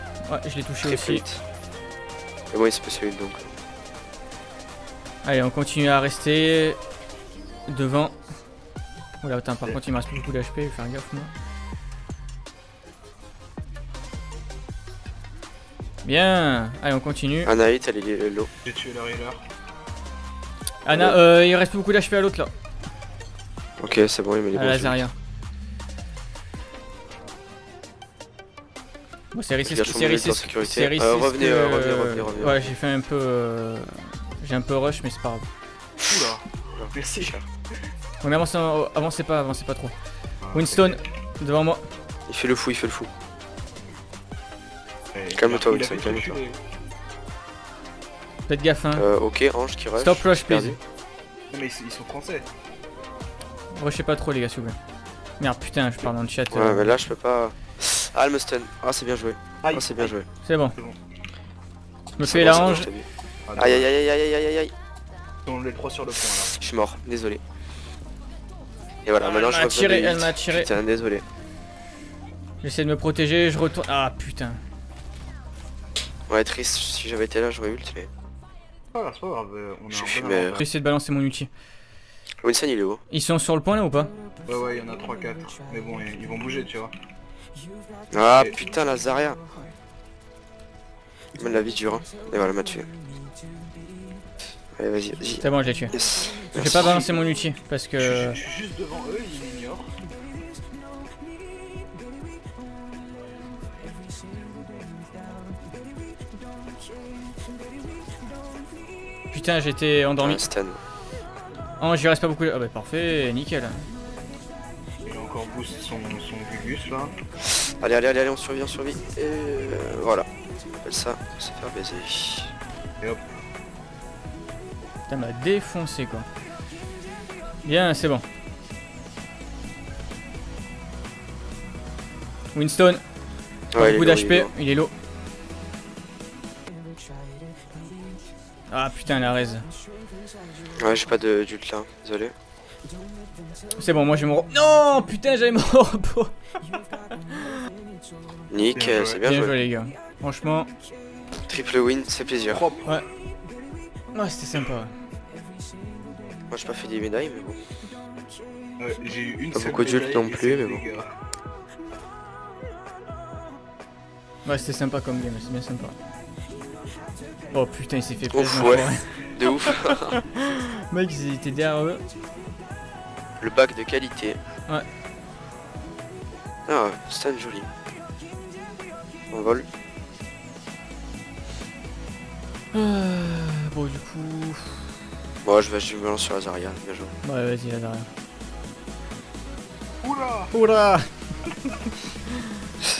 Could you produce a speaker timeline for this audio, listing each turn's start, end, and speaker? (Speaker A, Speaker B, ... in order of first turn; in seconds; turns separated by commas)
Speaker A: 0.3-1.2, Speaker B: 0.8-1.4, Speaker B: 2.5-3.5, Speaker A: 5.2-6.8, Speaker A: 7.7-8.2, Speaker A: 9.2-11.3, Speaker A: 16.0-17.5, Speaker B: 17.4-18.5, Speaker C: 18.6-19.4, Speaker A: 20.8-22.5, Speaker B: 20.9-21.2, Speaker B: 23.8-25.0, Speaker A: 24.6-25.1, Speaker A: 29.3-35.5, Speaker B: 29.6-32.7, Speaker C: 36.0-37.4, Speaker B: 36.8-37.4, Speaker A: 38.2-39.9, Speaker C: 40.4-40.9, Speaker A: 40.5-41.8, Speaker B: 42.3-43.1, Speaker C: 45.1-46.6, Speaker B: 45.4-46.4, Speaker A: 48.5-49.1, Speaker B: 49.0-50.8, Speaker A: 50.0-50.8, Speaker C: 51.5-52.5, Speaker A: 53.7-54.8, Speaker A: 55.4-57.0, Speaker B: 56.5-60.3, Speaker C: 59.6-60.2, Speaker A: 60.4-60.8, Speaker A: 62.2-62.9, Speaker B: 62.2-64.7, Speaker C: 63.5-63.9, Speaker C: 65.5-66.5, Speaker B: 66.5-67.4, Speaker B: 69.0-71.2, Speaker A: 69.2-70.7, Speaker A: 72.6-74.6, Speaker B: 76.3-78.1, Speaker C: 78.9-80.6, Speaker B: 79.9-80.6, Speaker A: 80.6-81.5, Speaker B: 82.4-83.0, Speaker A: 83.1-84.1, Speaker C: 84.5-86.9, Speaker B: 88.1-89.4, Speaker B: 91.4-92.9, Speaker B: 94.8-97.1, Speaker A: 95.4-95.9, Speaker A: 96.5-98.4, Speaker C: 96.6-97.3, Speaker C: 98.0-99.9, Speaker A: 109.3-110.4, Speaker B: 110.2-110.8, Speaker A: 111.8-113.9, Speaker C: 115.0-117.1, Speaker B: 117.8-120.3, Speaker B: 120.8-122.5, Speaker A: 125.1-126.3, Speaker A: 127.6-128.2, Speaker A: 132.5-133.0, Speaker B: 133.7-134.5, Speaker A: 133.8-134.9, Speaker A: 138.7-139.7, Speaker B: 140.8-142.3, Speaker A: 143.8-146.3, Speaker B: 148.5-149.6, Speaker C: 148.8-149.2, Speaker A: 149.2-150.7, Speaker B: 151.4-152.6, Speaker C: 152.5-153.0, Speaker A: 154.1-154.9, Speaker B: 156.5-157.6, Speaker C: 158.8-161.1, Speaker B: 159.5-160.8, Speaker A: 164.4-166.0, Speaker A: 167.5-172.0, Speaker B: 168.3-170.2, Speaker B: 173.4-174.4, Speaker B: 176.7-177.7, Speaker B: 179.3-179.7, Speaker A: 182.7-184.8, Speaker B: 185.4-187.1, Speaker A: 187.2-188.1, Speaker C: 190.0-190.5, Speaker A: 190.5-191.1